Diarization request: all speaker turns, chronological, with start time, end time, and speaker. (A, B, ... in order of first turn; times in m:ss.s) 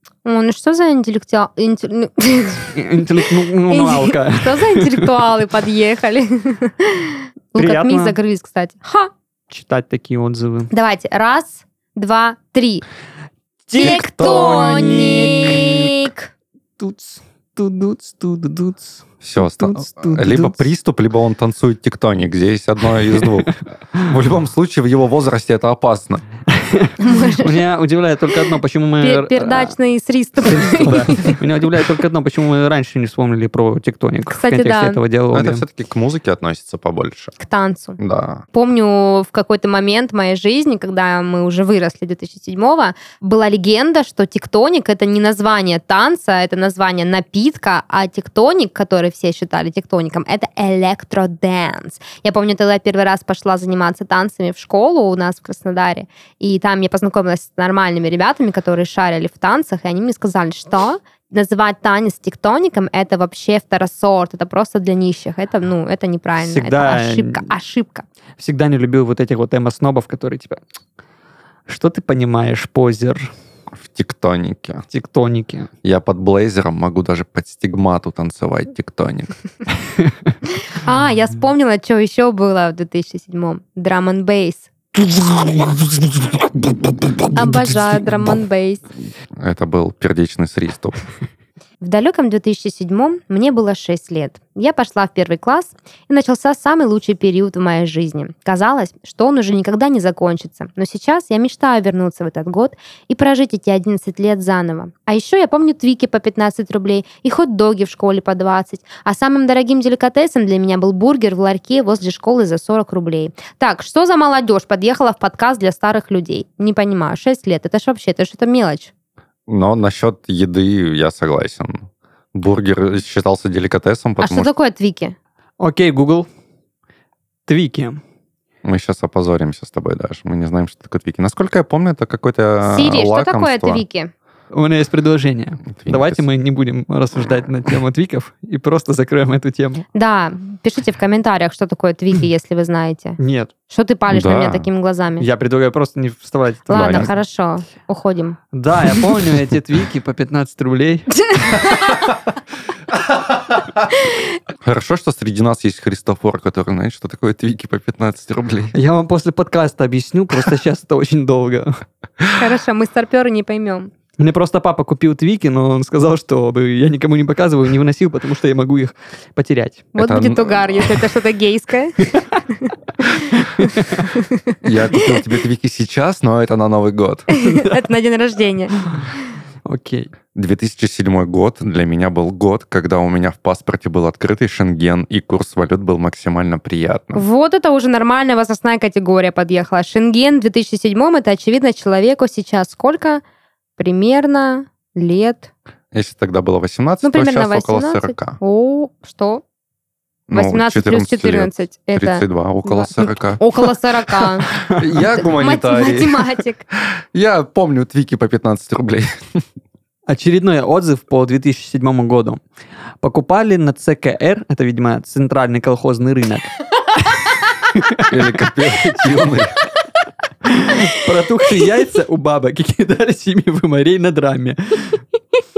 0:00.2-0:02.8 A
0:02.7-0:05.1 B
0:03.7-0:09.1 A
0:07.6-0:08.2 B
0:09.5-0:10.7 B
0:10.7-0:12.8 A
0:13.7-0:16.1 B
0:13.8-0:16.3 A
0:16.8-0:20.7 B
0:19.2-0:26.2 C
0:26.5-0:29.7 B
0:27.0-0:27.6 A
0:29.0-0:31.4 A
0:30.4-0:35.6 B
0:34.3-0:35.0 A
0:35.3-0:37.3 C
0:37.4-0:38.0 A
0:38.0-0:38.4 C
0:38.5-1:08.0 A
1:06.4-1:07.4 B
1:08.4-1:10.6 B
1:11.7-1:13.3 B
1:13.8-1:14.8 C
1:14.9-1:15.7 B
1:15.8-1:19.3 C
1:20.8-1:24.7 A
1:25.4-1:25.8 B
1:27.3-1:28.8 A
1:29.4-1:31.0 C
1:31.8-1:58.9 A
1:59.5-2:04.5 C
2:04.2-2:05.2 A
2:05.6-2:06.3 B
2:07.5-2:08.0 B
2:08.6-2:13.8 C
2:12.6-2:14.1 A
2:14.5-2:19.8 B
2:15.8-2:16.2 C
2:19.9-2:23.2 A
2:23.2-2:23.5 B
2:23.7-2:25.3 A
2:24.1-2:24.7 C
2:25.2-2:27.1 B
2:26.7-2:28.4 A
2:26.7-2:27.1 C
2:28.5-2:31.6 B
2:31.2-2:32.1 A
2:33.1-2:33.6 C
2:34.6-2:38.7 C
2:38.7-2:41.8 B
2:42.3-2:43.9 A
2:44.2-2:49.9 B
2:49.9-2:52.7 A
2:50.0-2:51.0 C
2:53.6-2:54.0 B
2:54.6-2:57.3 C
2:57.3-2:58.8 A
2:57.5-2:57.8 B
2:59.6-3:00.1 B
3:00.3-3:07.2 C
3:07.1-3:13.2 A
3:13.8-3:15.5 A
3:15.9-3:18.4 C
3:17.0-3:19.4 A
3:20.3-3:23.4 C
3:20.3-3:22.2 A
3:23.4-3:24.5 A
3:24.6-3:26.3 C
3:25.2-3:26.6 A
3:27.1-3:29.4 C
3:30.1-3:32.4 B
3:33.0-3:36.5 B
3:37.7-3:38.4 B
3:38.0-3:39.6 C
3:40.4-3:45.0 B